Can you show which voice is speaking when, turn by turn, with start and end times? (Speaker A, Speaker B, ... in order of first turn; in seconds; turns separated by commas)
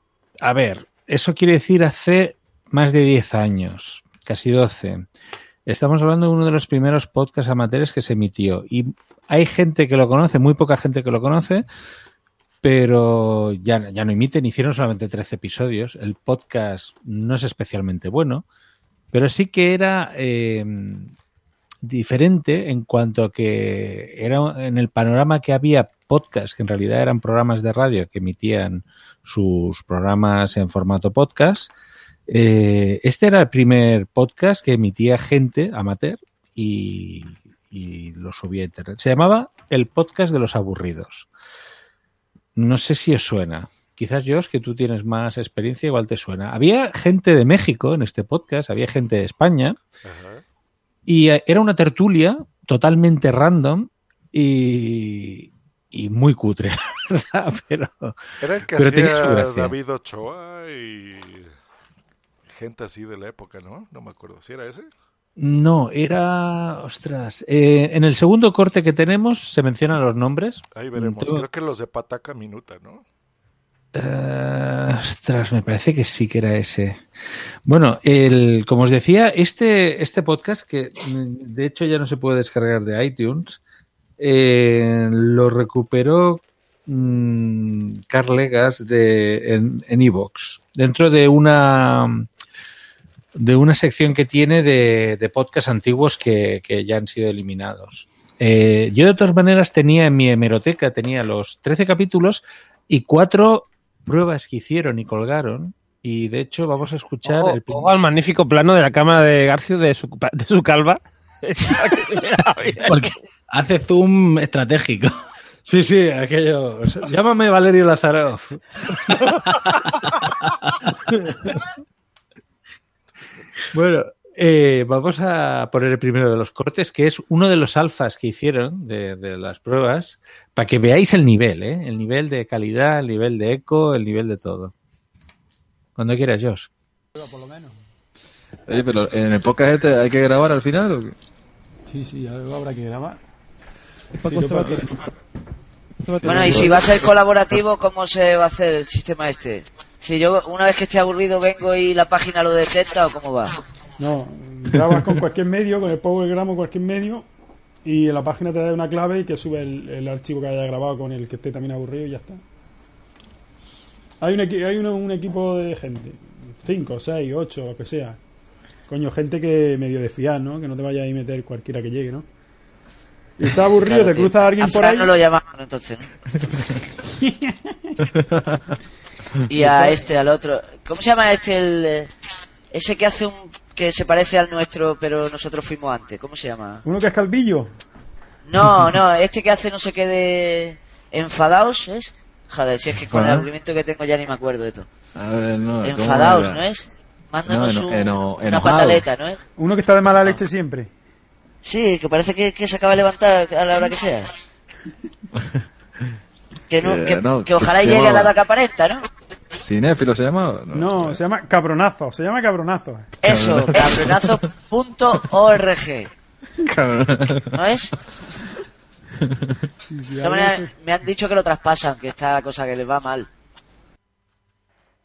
Speaker A: 0.4-5.1, Speaker A: 5.7-11.6, Speaker A: 12.6-18.4, Speaker A: 19.1-21.1, Speaker A: 21.9-31.7, Speaker A: 32.3-41.3, Speaker A: 42.5-49.8, Speaker B: 50.0-50.4, Speaker A: 51.0-58.2, Speaker B: 58.4-61.5, Speaker A: 58.7-59.7, Speaker B: 62.5-64.9, Speaker A: 65.4-71.5, Speaker B: 70.8-73.0, Speaker A: 73.9-77.0, Speaker A: 77.7-83.6, Speaker A: 84.2-92.3, Speaker A: 93.3-107.9, Speaker C: 107.2-113.1, Speaker D: 112.8-115.1, Speaker A: 115.7-119.4, Speaker A: 121.1-121.6, Speaker A: 123.7-134.7, Speaker A: 136.0-136.7, Speaker E: 137.2-137.7, Speaker F: 138.7-141.1, Speaker E: 141.9-143.2, Speaker E: 144.2-144.9, Speaker E: 146.0-146.8, Speaker G: 146.2-153.6, Speaker F: 146.3-146.9, Speaker E: 154.0-157.3, Speaker E: 157.8-162.4, Speaker E: 164.2-168.2, Speaker E: 168.9-172.2, Speaker E: 173.4-175.1, Speaker G: 173.7-176.1, Speaker E: 177.3-177.5, Speaker F: 178.1-178.4, Speaker G: 179.5-182.1, Speaker G: 182.7-186.8, Speaker E: 186.8-187.7, Speaker G: 188.5-194.9, Speaker F: 193.1-193.5, Speaker F: 195.2-196.7, Speaker G: 195.8-199.4, Speaker F: 197.4-199.1, Speaker E: 199.6-200.9, Speaker G: 201.6-204.3, Speaker G: 206.7-209.0, Speaker F: 206.8-208.3, Speaker F: 209.7-211.2, Speaker E: 210.7-213.1, Speaker F: 213.2-214.5, Speaker G: 213.2-216.1, Speaker F: 216.7-217.5, Speaker G: 217.5-217.9, Speaker E: 219.9-220.7, Speaker G: 220.2-223.3